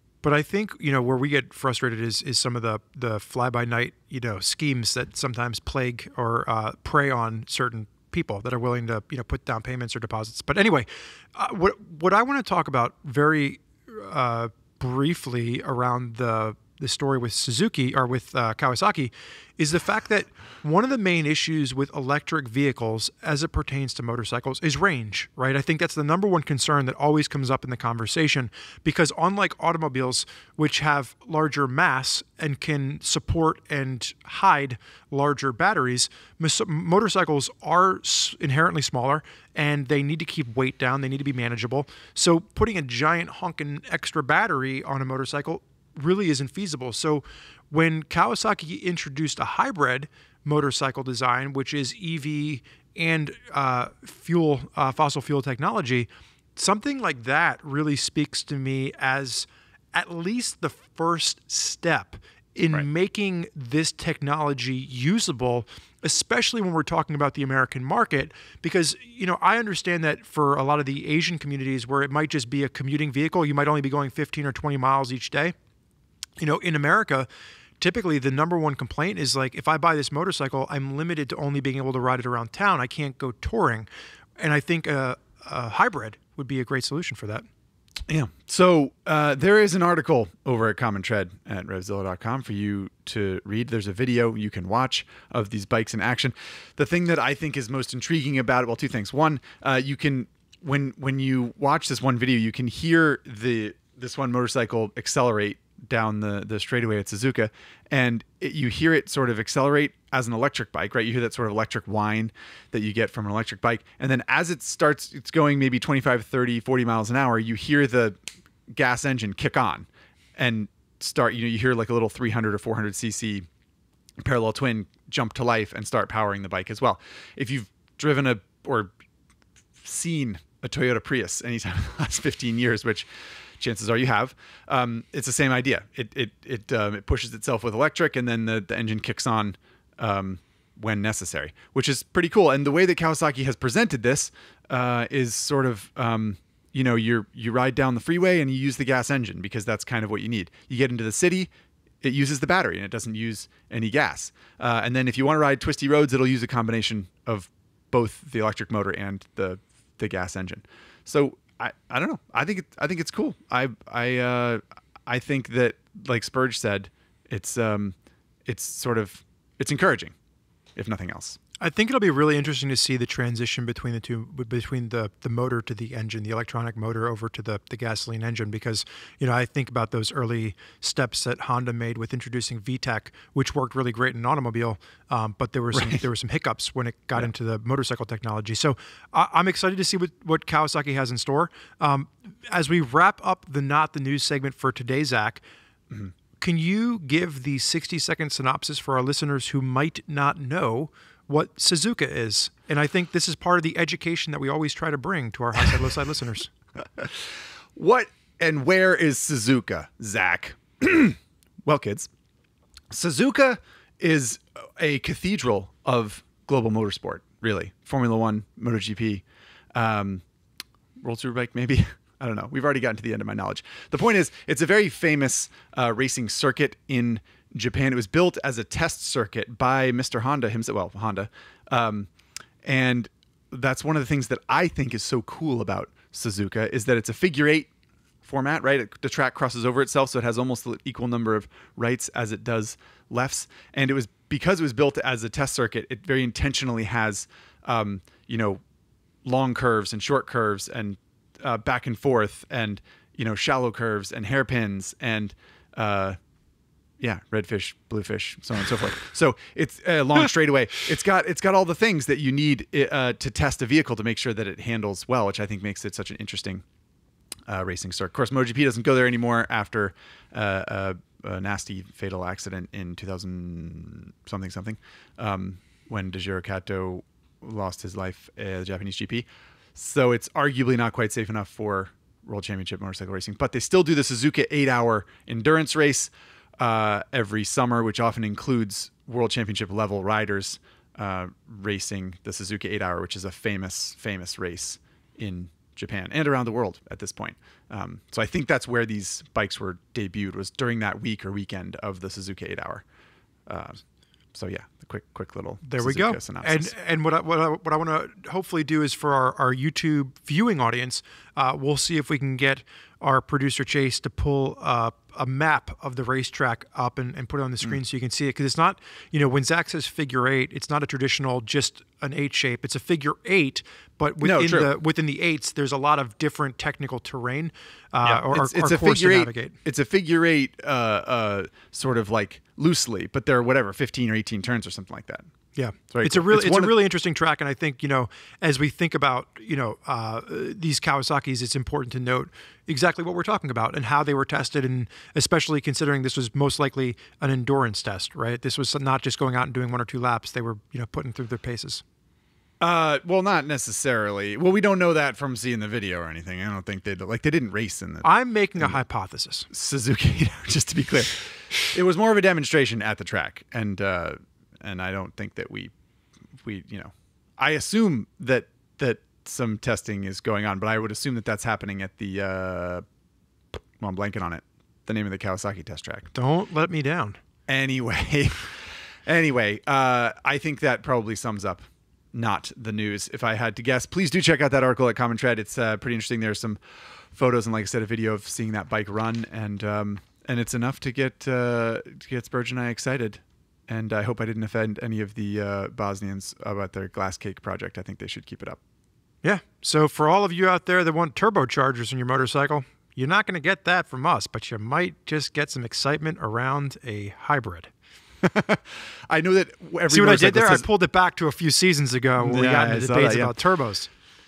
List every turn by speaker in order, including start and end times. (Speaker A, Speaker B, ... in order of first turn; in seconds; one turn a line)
Speaker A: 0.2-75.5
Speaker A: 76.4-77.3
Speaker A: 77.8-83.9
Speaker A: 84.4-87.4
Speaker B: 88.1-118.2
Speaker B: 118.7-123.5
Speaker B: 124.2-128.9
Speaker B: 129.8-133.1
Speaker B: 133.6-151.5
Speaker B: 152.0-167.9
Speaker B: 168.4-170.1
Speaker B: 170.8-171.4
Speaker A: 171.6-195.4
Speaker B: 185.7-186.0
Speaker A: 196.4-206.5
Speaker B: 207.0-212.1
Speaker B: 212.9-219.2
Speaker B: 219.7-220.2
Speaker B: 221.0-232.1
Speaker B: 232.6-237.7
Speaker B: 238.2-248.6
Speaker B: 249.2-256.2
Speaker B: 257.0-266.6
Speaker B: 267.5-302.8
Speaker B: 303.4-303.8
Speaker B: 304.3-306.7
Speaker A: 305.6-329.5
Speaker B: 324.2-324.7
Speaker B: 328.0-335.3
Speaker A: 335.5-351.8
Speaker B: 335.9-336.7
Speaker B: 352.6-358.8
Speaker A: 358.0-359.5
Speaker B: 359.5-365.7
Speaker B: 366.4-372.8
Speaker B: 373.8-376.1
Speaker A: 376.1-377.2
Speaker B: 377.5-386.6
Speaker B: 387.1-398.6
Speaker A: 399.2-407.7
Speaker B: 408.2-410.6
Speaker A: 409.9-413.9
Speaker B: 412.2-413.4